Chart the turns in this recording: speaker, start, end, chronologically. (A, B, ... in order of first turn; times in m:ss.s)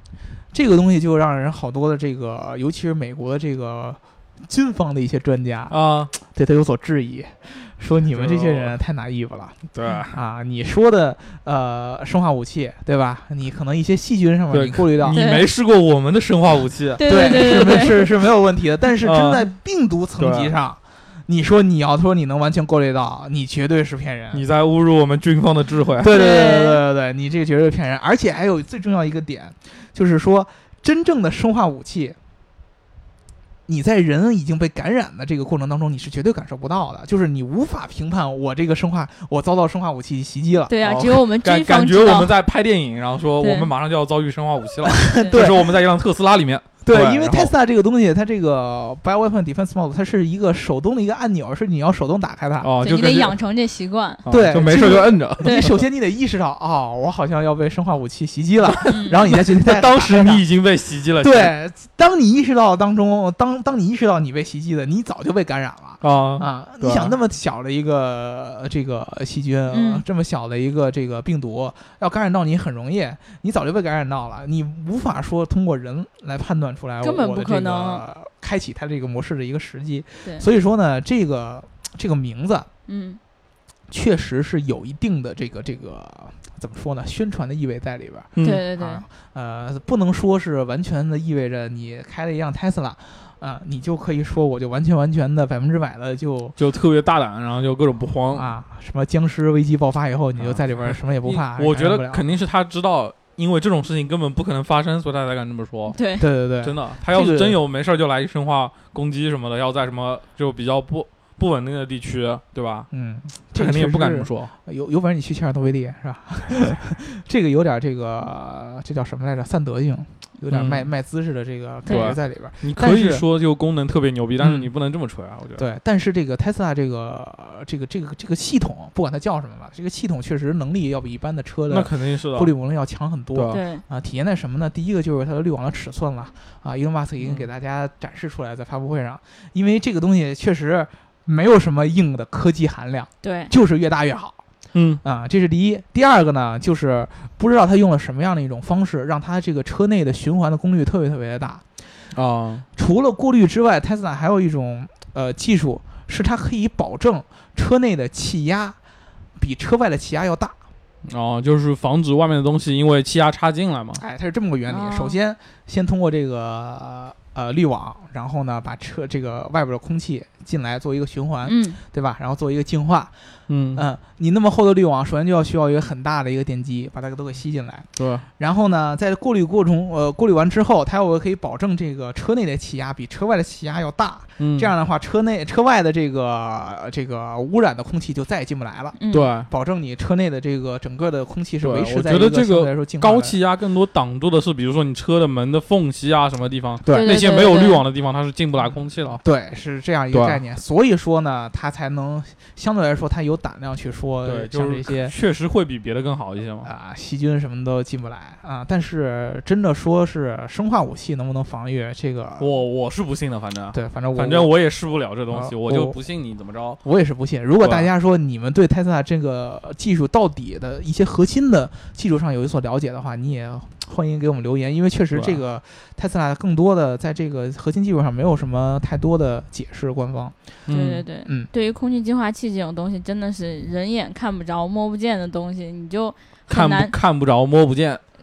0:00.5-0:15.2 A
0:05.7-0:06.1 B
0:08.1-0:08.7 B
0:09.7-0:10.2 B
0:14.5-0:17.9 B
0:15.1-0:15.5 C
0:17.0-0:18.0 C
0:17.1-0:24.4 A
0:19.0-0:19.4 B
0:20.2-0:20.5 B
0:24.3-0:26.1 B
0:26.0-0:32.2 A
0:26.0-0:26.8 C
0:33.7-0:40.7 A
0:40.7-0:42.3 C
0:40.8-0:47.5 B
0:43.4-0:43.7 C
0:44.8-0:45.8 A
0:45.2-0:45.4 C
0:46.8-0:52.7 A
0:52.6-0:53.3 B
0:52.8-0:54.2 C
0:54.2-0:55.8 B
0:54.3-1:00.4 A
0:55.4-0:55.8 C
0:58.7-1:01.5 B
0:58.9-0:59.2 C
1:01.2-1:22.7 A
1:06.0-1:07.1 B
1:09.7-1:10.0 C
1:17.0-1:18.0 C
1:22.9-1:23.2 C
1:23.9-1:36.6 A
1:28.4-1:28.6 B
1:28.4-1:29.0 C
1:36.6-1:38.5 B
1:38.3-1:42.2 A
1:40.4-1:46.0 B
1:45.9-1:46.2 C
1:46.2-1:47.6 A
1:46.6-1:52.9 B
1:52.9-2:03.2 A
1:53.5-1:54.5 B
2:00.5-2:00.9 B
2:01.8-2:02.1 C
2:01.9-2:05.6 B
2:04.4-2:04.7 A
2:05.6-2:24.4 A
2:11.7-2:12.5 B
2:13.3-2:13.6 B
2:13.5-2:13.8 C
2:17.2-2:17.5 B
2:23.2-2:23.5 C
2:24.7-2:25.0 B
2:25.0-2:31.6 A
2:32.1-2:32.6 B
2:32.8-2:38.8 A
2:39.4-2:40.6 A
2:41.0-2:44.0 B
2:44.0-2:53.1 A
2:44.7-2:45.1 C
2:51.4-2:51.8 C
2:53.5-2:53.8 B
2:53.7-2:57.9 A
2:58.0-2:58.2 B
2:58.4-3:13.4 A
3:04.4-3:04.7 B
3:09.0-3:09.3 C
3:09.1-3:09.5 B
3:11.6-3:19.2 B
3:16.8-3:17.3 A
3:16.9-3:17.8 C
3:19.2-3:25.1 A
3:20.1-3:20.4 B
3:24.2-3:26.7 B
3:26.6-3:32.5 A
3:32.4-3:36.8 B
3:33.7-3:34.5 A
3:35.3-3:36.0 A
3:36.8-3:50.3 A
3:37.6-3:37.9 B
3:45.1-3:45.4 B
3:50.7-3:51.0 B
3:50.7-3:56.9 C
3:56.5-3:58.0 B